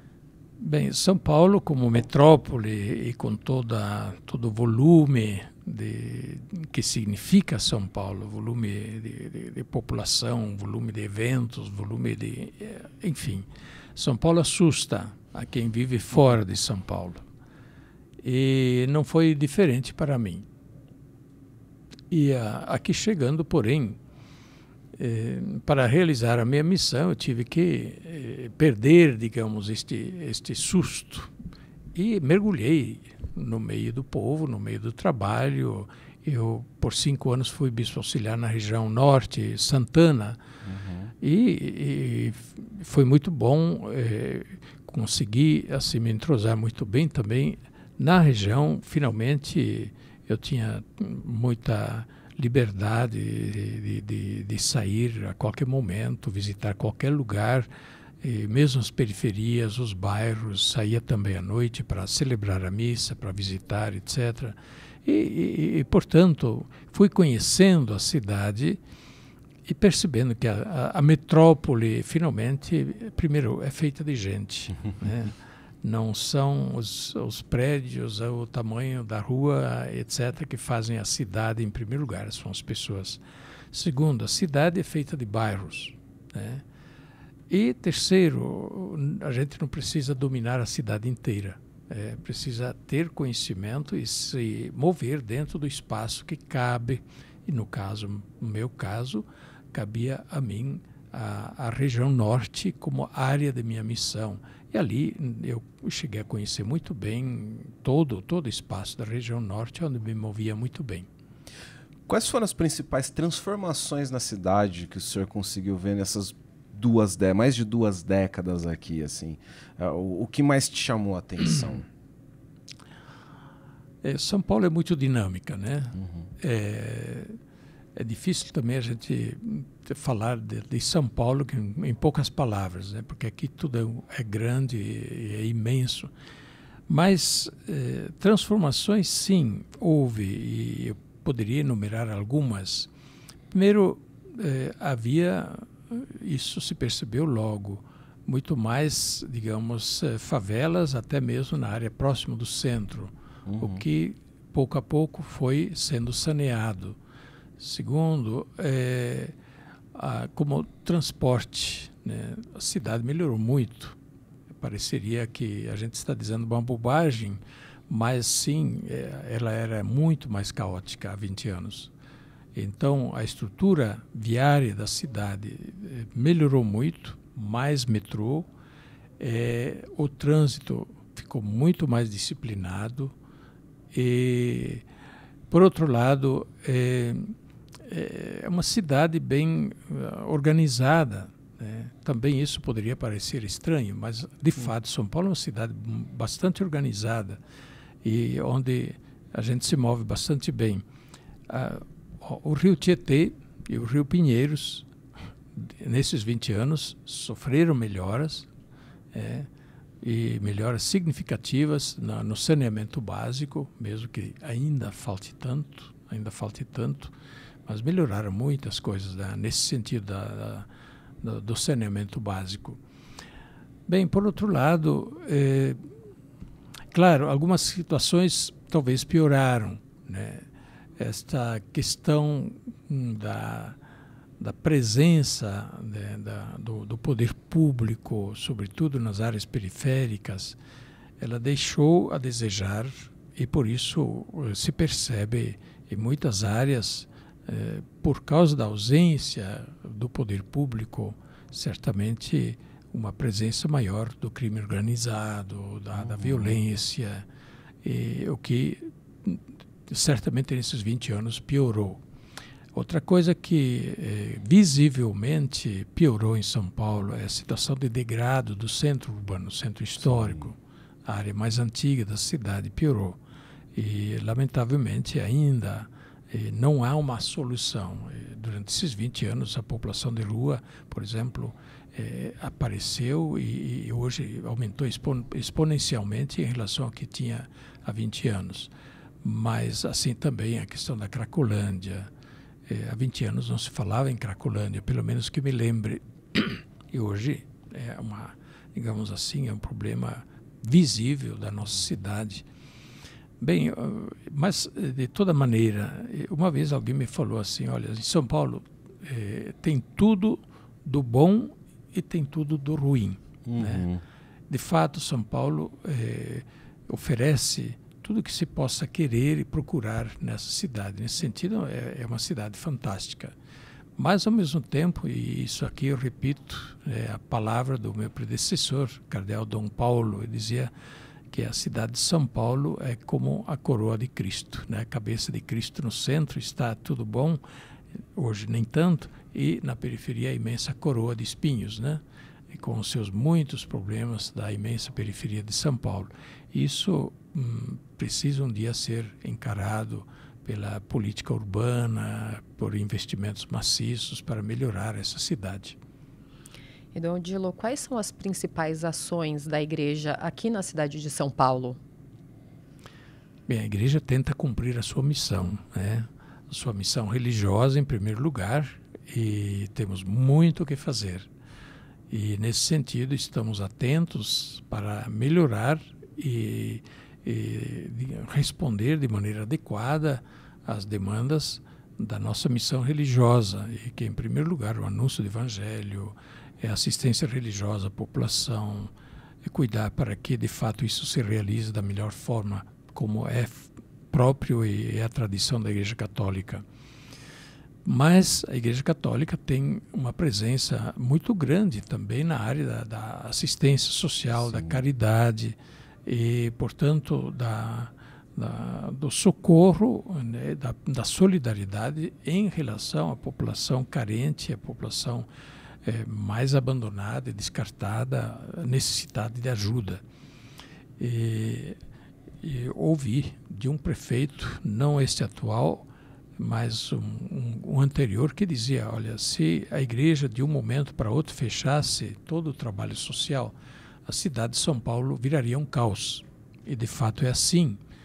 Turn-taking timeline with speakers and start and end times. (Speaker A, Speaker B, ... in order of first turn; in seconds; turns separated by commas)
Speaker A: 0.6-17.2, Speaker A: 18.2-20.4, Speaker A: 22.1-24.0, Speaker A: 24.9-31.3, Speaker A: 31.9-40.4, Speaker B: 40.6-41.1, Speaker A: 41.2-57.7, Speaker A: 58.2-68.8, Speaker A: 69.7-83.2, Speaker A: 83.7-86.6, Speaker A: 87.5-111.1, Speaker B: 112.1-121.9, Speaker A: 124.0-127.4, Speaker B: 126.0-126.3, Speaker A: 128.0-136.1, Speaker A: 136.9-142.9, Speaker A: 143.5-157.0, Speaker B: 153.4-153.8, Speaker A: 157.6-159.3, Speaker A: 159.9-163.9, Speaker A: 164.6-171.9, Speaker A: 172.5-178.4, Speaker A: 179.2-183.1, Speaker A: 183.9-184.8, Speaker A: 185.5-197.4, Speaker A: 198.0-200.8, Speaker A: 201.5-204.9, Speaker A: 205.5-208.5, Speaker A: 209.1-209.5, Speaker A: 210.0-217.1, Speaker A: 217.7-220.7, Speaker A: 221.2-222.8, Speaker A: 223.9-225.8, Speaker A: 226.9-230.4, Speaker A: 231.0-233.8, Speaker A: 234.4-240.6, Speaker A: 241.2-257.2, Speaker B: 256.0-256.6, Speaker A: 257.8-262.0, Speaker A: 262.7-273.2, Speaker B: 270.1-270.5, Speaker A: 273.7-288.7, Speaker A: 289.2-292.1, Speaker A: 292.7-302.4, Speaker A: 303.4-313.9, Speaker B: 313.4-314.0, Speaker A: 314.5-323.3, Speaker A: 324.0-330.7, Speaker A: 331.3-337.4, Speaker A: 338.1-355.8, Speaker C: 356.9-361.8, Speaker A: 363.5-371.3, Speaker A: 372.1-388.9, Speaker A: 389.4-396.6, Speaker A: 397.8-415.2, Speaker B: 404.5-404.8, Speaker A: 415.8-420.0, Speaker A: 421.0-421.8, Speaker A: 422.4-437.8